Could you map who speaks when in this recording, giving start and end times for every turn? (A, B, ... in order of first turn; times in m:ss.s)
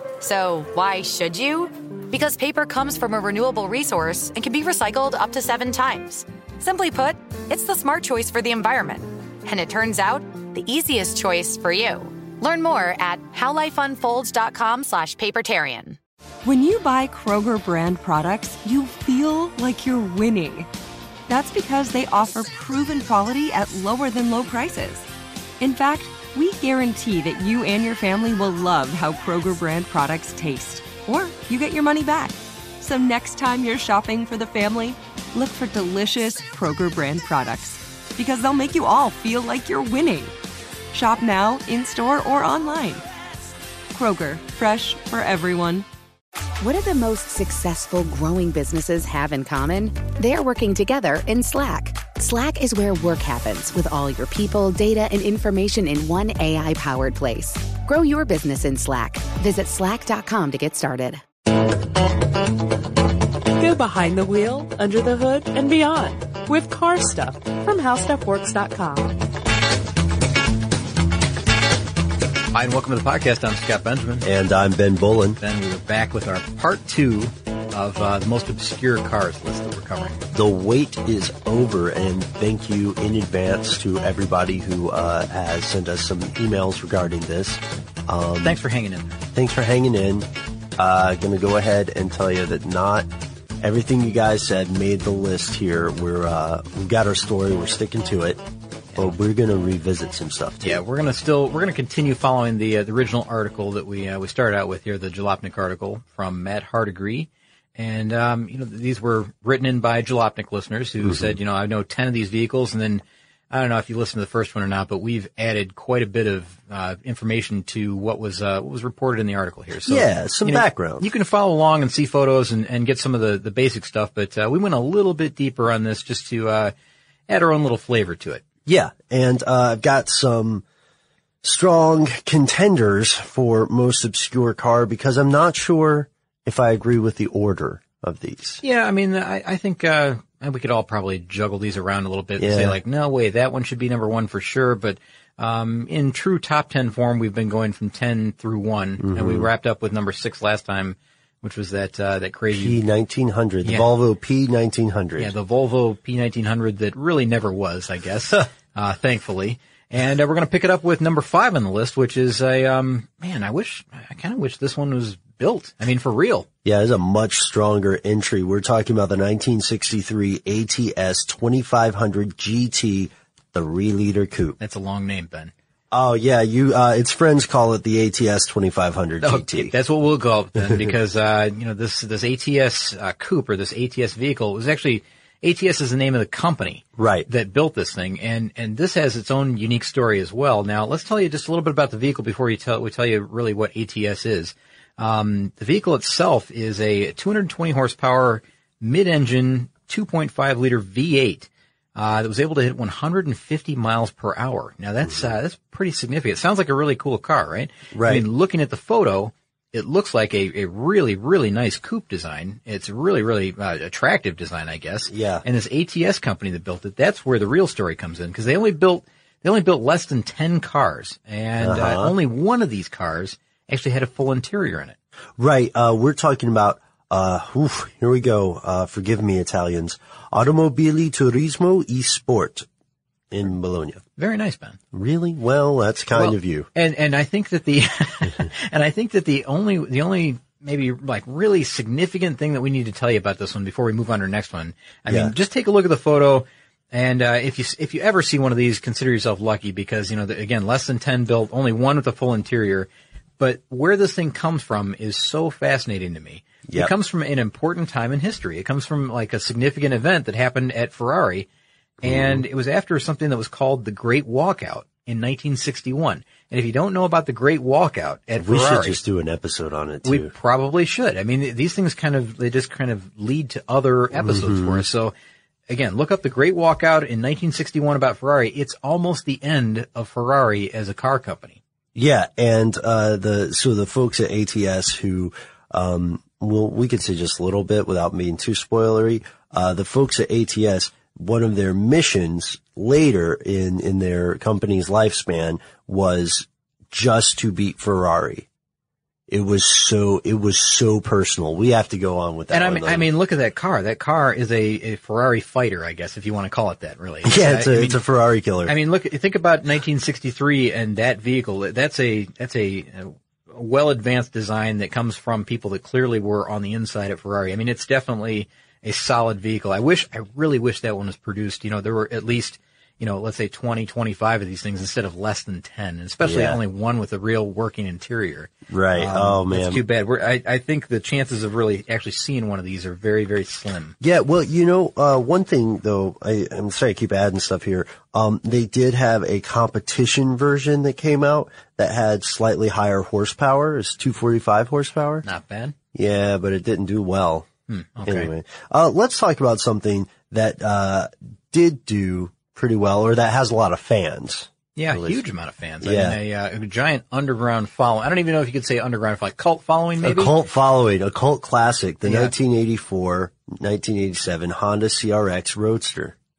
0:00.2-0:16.0 A
0:16.4-0:20.7 B
0:21.3-0:25.1 B
0:25.6-0:40.3 B
0:40.9-0:43.0 B
0:43.9-0:45.9 B
0:46.6-1:01.2 C
1:03.6-1:09.2 D
1:12.5-1:14.3 E
1:14.2-1:15.4 F
1:15.4-1:20.2 E
1:20.3-1:28.6 F
1:28.4-1:29.2 E
1:29.4-1:33.1 F
1:33.6-1:38.4 F
1:39.0-1:40.8 F
1:40.6-2:06.7 E
1:51.0-1:51.4 F
1:59.9-2:01.1 F
2:07.3-2:08.4 E
2:08.7-2:10.6 F
2:11.4-2:18.6 F
2:18.6-2:32.8 E
2:22.4-2:22.8 F
2:29.0-2:29.5 F
2:32.5-2:35.3 F
2:35.2-2:46.5 E
2:46.6-2:54.6 F
2:54.6-2:55.5 E
2:55.9-2:59.7 F
2:59.2-3:45.0 E
3:07.0-3:07.3 F
3:27.9-3:28.3 F
3:35.1-3:35.4 F
3:41.6-3:42.1 F
3:45.4-3:52.7 F
3:53.3-3:54.0 F
3:54.2-3:54.8 E
3:54.9-3:56.7 F
3:56.2-4:12.9 E
4:05.1-4:05.3 F
4:13.4-4:21.5 E
4:16.7-4:16.9 F
4:22.0-4:22.4 F
4:22.0-4:29.0 E
4:28.4-4:30.3 F
4:30.0-4:35.1 E
4:34.1-4:34.8 F
4:35.7-4:41.6 E
4:42.0-4:58.5 F
4:59.3-5:03.1 F
5:02.5-5:08.0 E
5:07.2-5:08.7 F
5:08.6-5:34.0 E
5:26.2-5:26.6 F
5:28.7-5:29.8 F
5:34.0-5:45.2 F
5:45.2-5:45.8 E
5:45.9-5:47.5 F
5:47.7-5:48.3 E
5:48.0-5:55.2 F
5:54.8-6:00.3 E
5:55.8-5:56.2 F
6:00.0-6:06.2 F
6:02.0-6:02.3 E